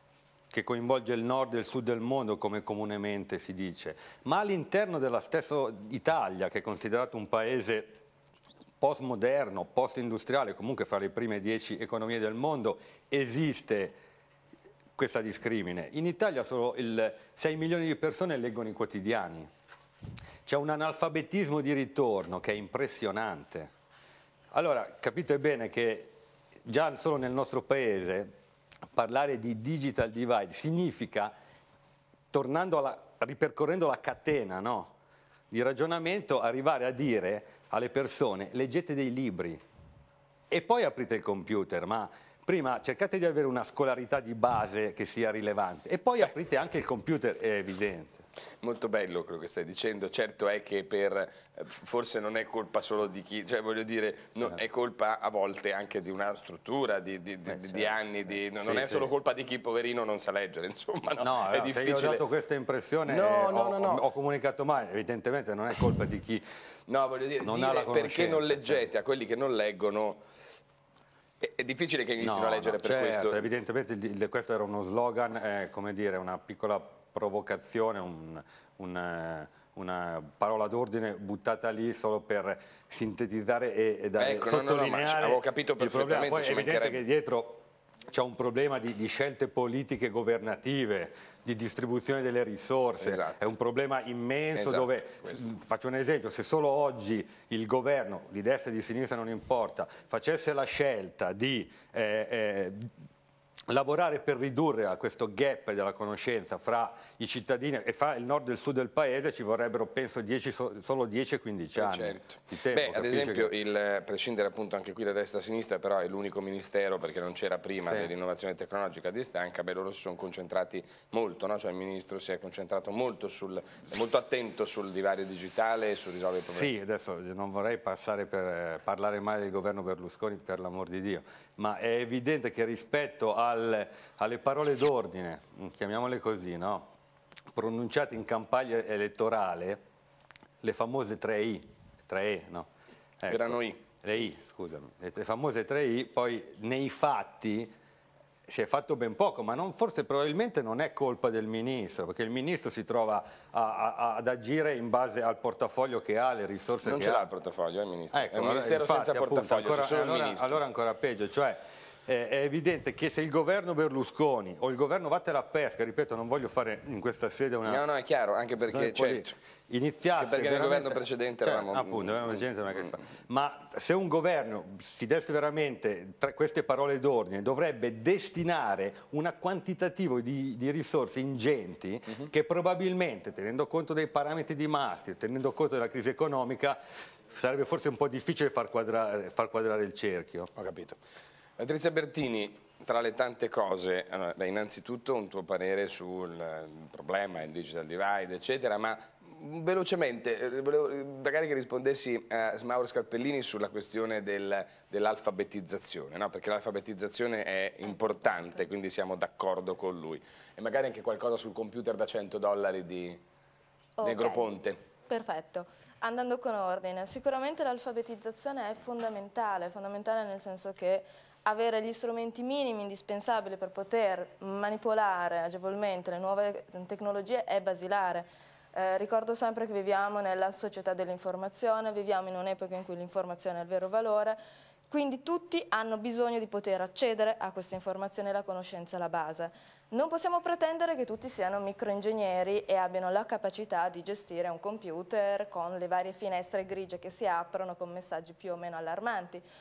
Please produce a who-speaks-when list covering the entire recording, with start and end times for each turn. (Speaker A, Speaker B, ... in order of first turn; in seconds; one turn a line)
Speaker A: 0.5-8.0
Speaker A: 8.8-14.0
Speaker A: 15.0-19.5
Speaker A: 20.5-23.7
Speaker A: 24.5-28.3
Speaker A: 28.9-31.4
Speaker A: 32.3-34.9
Speaker A: 35.5-39.6
Speaker A: 40.5-48.2
Speaker B: 48.6-62.2
Speaker A: 57.5-58.0
Speaker A: 58.6-59.1
Speaker A: 61.2-66.4
Speaker B: 63.1-64.1
Speaker B: 66.9-70.2
Speaker A: 67.4-68.8
Speaker B: 71.4-73.5
Speaker A: 72.2-102.9
Speaker B: 84.2-87.0
Speaker B: 93.0-93.5
Speaker B: 94.5-95.5
Speaker A: 103.7-113.5
Speaker B: 111.8-126.7
Speaker A: 117.8-118.1
Speaker A: 126.5-136.9
Speaker A: 137.5-139.8
Speaker A: 140.6-142.7
Speaker A: 143.2-147.7
Speaker B: 143.3-143.8
Speaker A: 148.5-157.3
Speaker B: 156.8-160.6
Speaker A: 158.1-167.8
Speaker B: 167.7-169.3
Speaker A: 168.7-186.8
Speaker B: 170.2-172.4
Speaker A: 187.3-190.5
Speaker B: 190.5-191.0
Speaker B: 191.6-213.2
Speaker C: 214.0-214.5
Speaker B: 214.0-214.8
Speaker C: 215.1-234.4
Speaker C: 234.9-249.4